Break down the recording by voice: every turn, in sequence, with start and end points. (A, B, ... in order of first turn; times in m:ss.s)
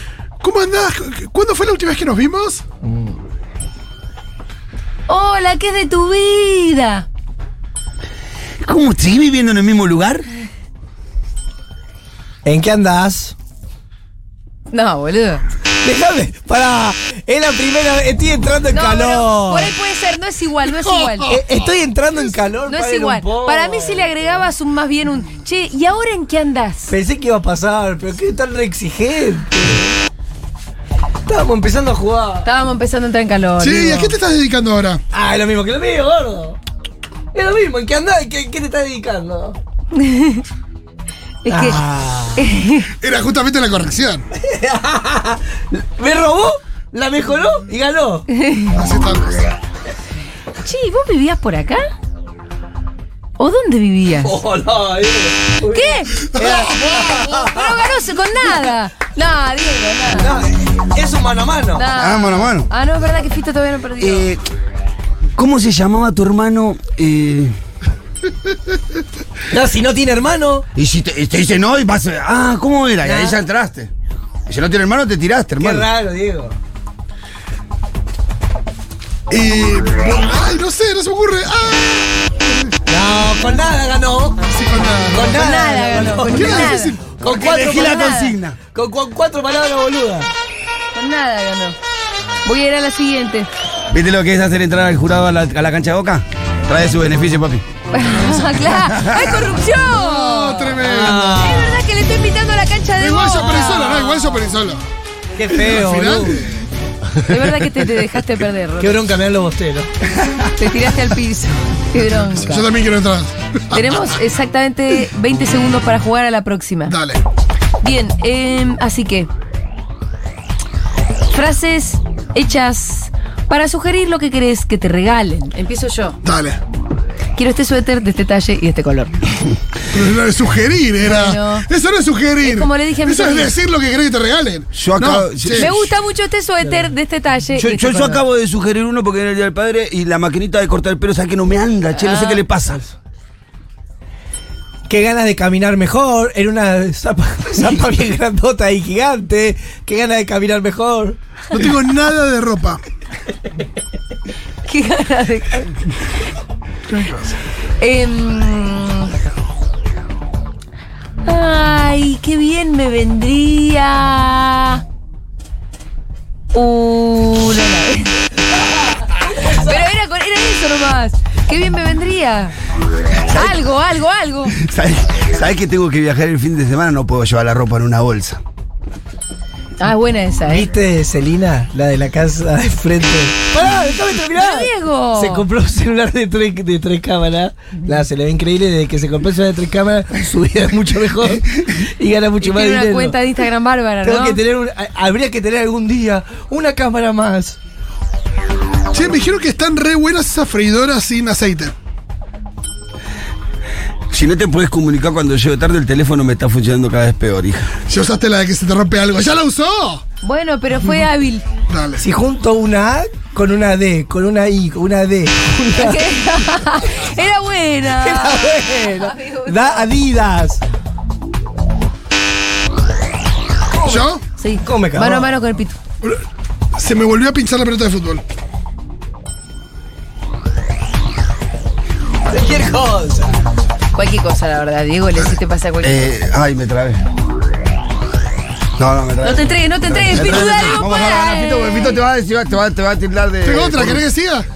0:00.4-0:02.6 A
0:05.1-0:07.1 B
0:08.6-0:10.3 C
0:12.4-0:13.3 D
0:14.7-0:15.4 B
0:15.8-0:19.7 D
0:18.7-0:21.3 B
0:21.3-0:24.0 D
0:22.7-0:26.9 B
0:26.9-0:30.0 D
0:31.3-0:32.5 D
0:32.4-0:34.1 B
0:33.6-0:35.0 A
0:35.1-0:36.6 D
0:37.3-0:39.6 D
0:39.9-0:40.4 B
0:41.4-0:41.8 B
0:41.5-0:42.4 D
0:42.4-0:42.9 B
0:43.0-0:44.3 A
0:44.4-0:48.3 D
0:48.3-0:48.7 B
0:48.7-0:49.5 A
0:50.6-0:51.8 B
0:53.4-0:54.4 B
0:54.2-0:57.8 D
0:55.6-1:00.4 B
0:56.2-0:57.1 A
1:00.1-1:01.9 D
1:01.7-1:04.3 B
1:02.0-1:02.7 C
1:04.0-1:04.4 C
1:05.4-1:07.5 C
1:09.5-1:10.6 D
1:10.8-1:13.9 C
1:13.0-1:13.3 D
1:14.5-1:15.9 C
1:15.6-1:16.5 D
1:19.3-1:22.1 A
1:22.9-1:24.4 D
1:24.5-1:25.4 A
1:25.1-1:27.9 D
1:25.3-1:27.0 B
1:26.2-1:27.2 A
1:27.2-1:28.6 C
1:27.7-1:28.3 B
1:28.7-1:30.3 D
1:30.9-1:31.8 B
1:32.4-1:33.5 B
1:33.9-1:37.6 C
1:37.9-1:44.0 B
1:38.6-1:39.5 C
1:39.8-1:41.5 A
1:40.9-1:41.8 D
1:43.0-1:44.8 A
1:45.4-1:46.4 D
1:45.4-1:46.6 A
1:47.2-1:49.0 B
1:48.8-1:49.9 D
1:50.5-1:52.6 B
1:52.3-1:53.9 A
1:53.7-1:57.0 B
1:56.9-1:57.2 A
1:57.8-1:59.3 B
2:01.3-2:06.2 B
2:06.2-2:06.6 A
2:07.3-2:09.2 B
2:09.9-2:15.7 A
2:11.0-2:11.6 B
2:12.4-2:13.5 B
2:14.7-2:15.9 C
2:15.5-2:18.0 B
2:17.6-2:22.8 C
2:21.9-2:22.4 B
2:24.9-2:31.2 D
2:31.5-2:32.8 A
2:34.6-2:35.7 B
2:36.9-2:37.4 A
2:37.8-2:39.1 B
2:41.2-2:44.8 B
2:46.5-2:48.3 B
2:49.1-2:52.5 B
2:53.3-2:53.7 C
2:53.3-2:54.5 B
2:54.5-2:58.4 C
2:59.8-3:00.7 B
3:00.5-3:13.1 D
3:04.3-3:05.5 B
3:12.4-3:14.4 B
3:14.0-3:17.6 D
3:18.9-3:21.7 A
3:24.1-3:27.7 C
3:27.9-3:30.0 A
3:30.2-3:31.4 B
3:31.7-3:32.0 A
3:32.0-3:36.0 D
3:35.7-3:39.9 B
3:37.8-3:40.6 D
3:43.7-3:44.0 D
3:43.8-3:44.2 A
3:44.4-3:45.8 B
3:44.6-3:45.3 D
3:46.7-3:48.2 A
3:52.3-3:53.4 D
3:53.9-3:56.0 B
3:55.8-3:57.0 C
3:58.8-4:04.0 C
3:59.2-4:02.0 B
4:03.4-4:04.5 A